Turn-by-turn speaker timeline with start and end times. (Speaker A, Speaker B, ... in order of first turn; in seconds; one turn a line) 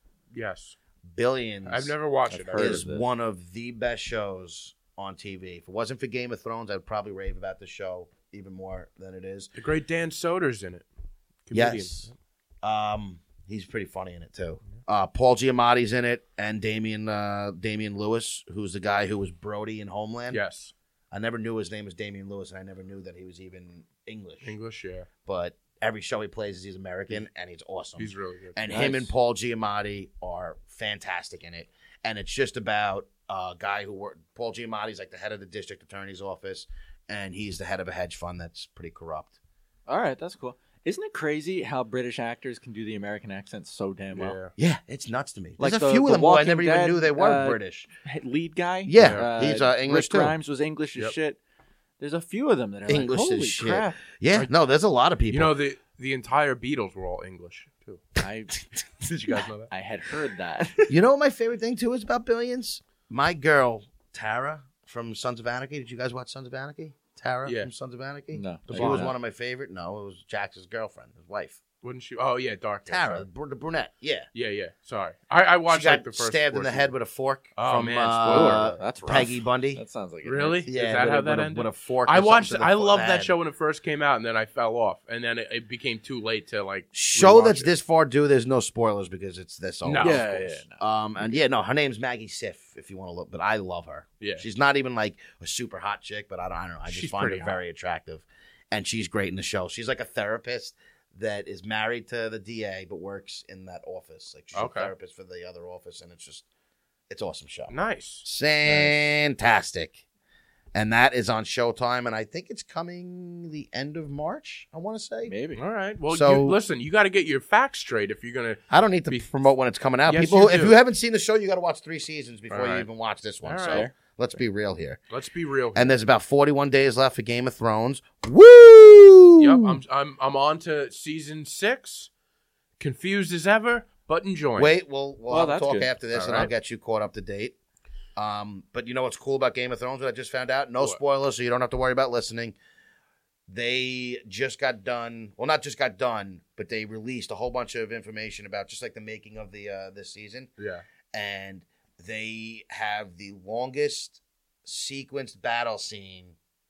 Speaker A: 0.3-0.8
Speaker B: 1.1-1.9
Speaker A: 1.7-2.8
Speaker C: 2.3-3.0
Speaker B: 2.5-9.5
Speaker A: 9.6-10.9
Speaker A: 11.5-12.1
Speaker B: 11.5-12.1
Speaker B: 12.6-20.4
Speaker A: 20.3-20.7
Speaker B: 21.1-24.5
Speaker A: 24.4-25.1
Speaker B: 25.2-39.3
Speaker A: 28.0-28.7
Speaker C: 28.7-29.0
Speaker C: 39.9-44.4
Speaker A: 44.1-44.5
Speaker B: 44.6-47.9
Speaker C: 45.6-51.4
Speaker B: 48.9-50.4
Speaker A: 49.0-49.2
Speaker C: 52.0-54.0
Speaker B: 52.9-55.5
Speaker A: 55.3-58.0
Speaker C: 58.2-58.6
Speaker A: 59.0-59.7
Speaker C: 59.7-60.9
Speaker B: 60.9-71.6
Speaker A: 67.5-67.7
Speaker C: 68.3-69.1
Speaker A: 68.7-69.1
Speaker A: 71.8-73.3
Speaker B: 72.9-74.3
Speaker A: 74.3-76.9
Speaker B: 75.7-79.8
Speaker A: 77.6-78.8
Speaker C: 78.3-80.6
Speaker A: 80.2-87.7
Speaker B: 80.7-83.3
Speaker B: 86.9-106.5
Speaker A: 89.8-90.6
Speaker C: 90.0-90.8
Speaker A: 96.9-97.6
Speaker A: 104.5-104.9
Speaker B: 107.1-107.7
Speaker A: 107.7-108.2
Speaker B: 108.2-110.0
Speaker B: 110.7-115.3
Speaker C: 115.3-115.6
Speaker A: 115.6-119.3
Speaker B: 116.1-116.6
Speaker B: 118.7-125.0
Speaker A: 120.1-120.8
Speaker A: 122.5-122.9
Speaker A: 123.4-123.9
Speaker C: 123.7-123.9
Speaker A: 125.1-126.0
Speaker B: 125.8-129.8
Speaker A: 129.4-132.1
Speaker A: 132.8-134.7
Speaker B: 134.6-137.6
Speaker C: 135.3-135.9
Speaker A: 136.1-136.5
Speaker B: 138.2-142.6
Speaker B: 143.5-150.5
Speaker A: 150.6-150.8
Speaker B: 151.1-156.3